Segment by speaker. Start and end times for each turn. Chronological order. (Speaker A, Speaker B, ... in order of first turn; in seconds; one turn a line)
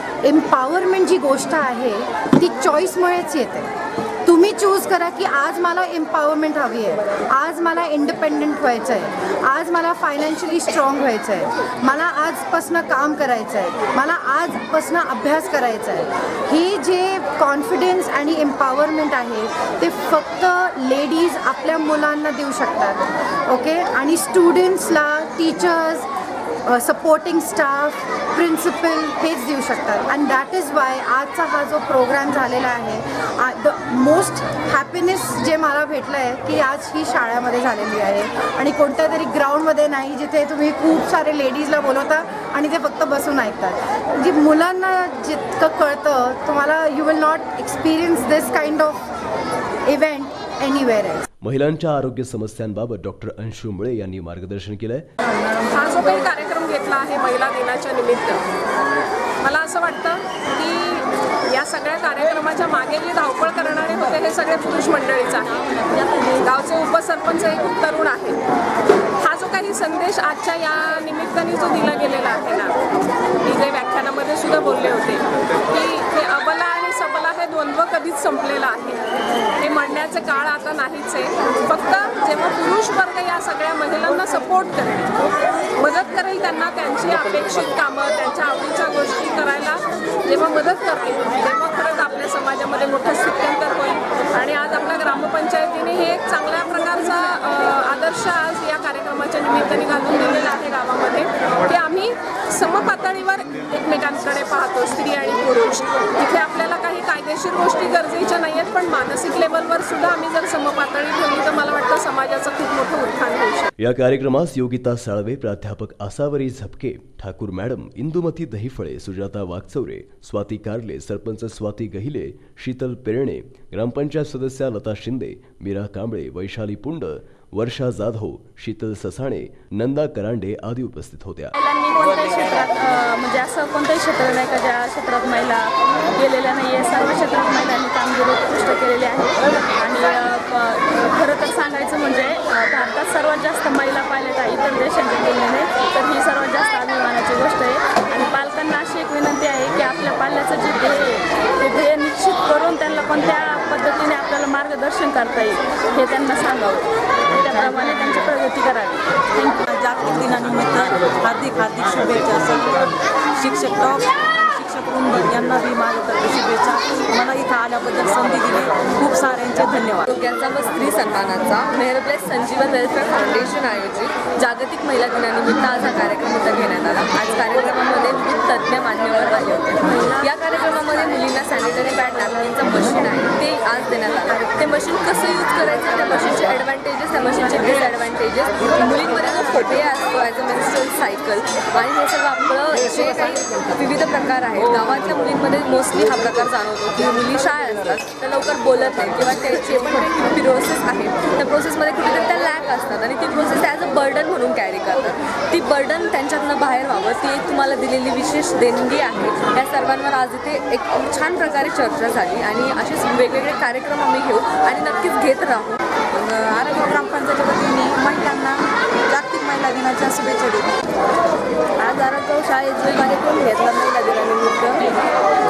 Speaker A: 0.2-3.7
Speaker A: 4.2-26.1
Speaker A: 26.7-49.0
Speaker A: 49.9-51.2
Speaker B: 51.4-55.1
Speaker C: 55.7-58.4
Speaker C: 59.4-68.4
Speaker C: 69.2-72.7
Speaker C: 73.4-79.0
Speaker C: 79.6-85.1
Speaker C: 85.8-113.7
Speaker B: 113.8-131.5
Speaker D: 131.6-159.6
Speaker E: 159.7-162.8
Speaker E: 163.3-170.1
Speaker F: 170.1-215.8
Speaker E: 216.1-220.7
Speaker F: 221.8-225.0